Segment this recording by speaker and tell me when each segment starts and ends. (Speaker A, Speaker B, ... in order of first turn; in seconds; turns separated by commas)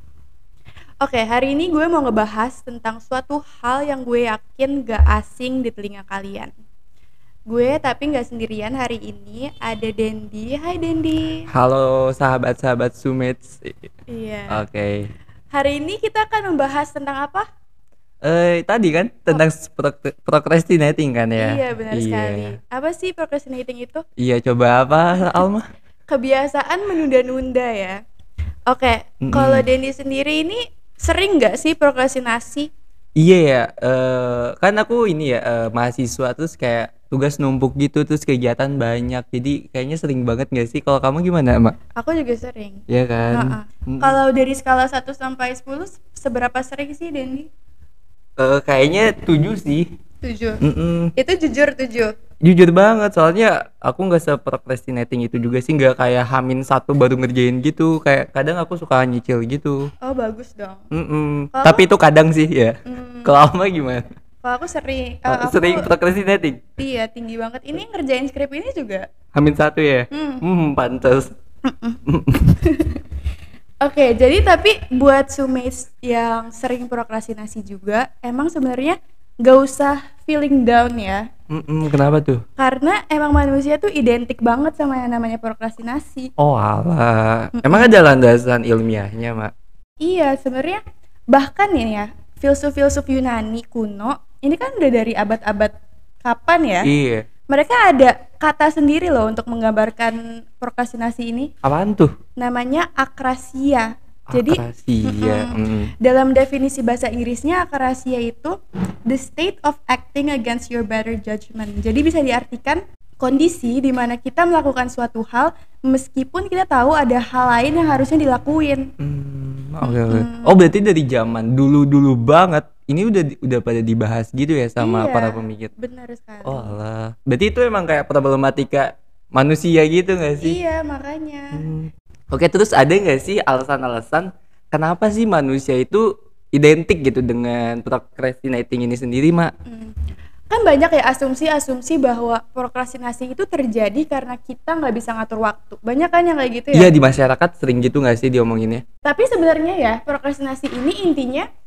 Speaker A: 1.0-6.5, Speaker A: 7.5-11.4, Speaker B: 11.5-13.9, Speaker A: 14.1-14.6, Speaker B: 14.5-15.1, Speaker A: 15.5-17.5, Speaker B: 18.2-22.5, Speaker A: 21.4-24.0, Speaker B: 24.2-25.7, Speaker A: 26.1-28.0, Speaker A: 28.7-32.7, Speaker B: 29.2-29.7, Speaker B: 33.1-41.7, Speaker A: 42.0-47.5, Speaker B: 42.9-44.2, Speaker B: 48.4-49.9, Speaker A: 50.2-50.6, Speaker B: 50.6-51.1, Speaker A: 51.1-52.1, Speaker B: 52.4-59.9, Speaker A: 60.0-60.8, Speaker B: 60.9-64.1, Speaker A: 61.5-61.9, Speaker A: 62.8-63.3, Speaker A: 64.4-65.9, Speaker B: 65.3-66.6, Speaker A: 66.8-69.1, Speaker B: 69.3-71.3, Speaker A: 70.1-70.4, Speaker A: 71.7-72.0, Speaker B: 72.1-72.5, Speaker A: 72.5-73.0, Speaker A: 73.8-81.2, Speaker B: 81.5-82.4, Speaker A: 82.5-86.3, Speaker B: 86.4-89.5, Speaker A: 87.5-87.9, Speaker A: 90.0-90.8, Speaker A: 91.3-96.9, Speaker B: 96.8-97.2, Speaker A: 97.5-101.5, Speaker B: 101.6-102.1, Speaker A: 102.4-108.5, Speaker B: 104.3-105.9, Speaker A: 109.1-118.9, Speaker B: 119.0-125.7, Speaker A: 119.8-120.6, Speaker A: 124.8-126.8, Speaker B: 126.4-130.6, Speaker A: 130.4-131.7, Speaker B: 131.5-139.5, Speaker A: 139.7-139.9, Speaker A: 140.5-146.9, Speaker B: 146.7-148.8, Speaker A: 149.0-151.5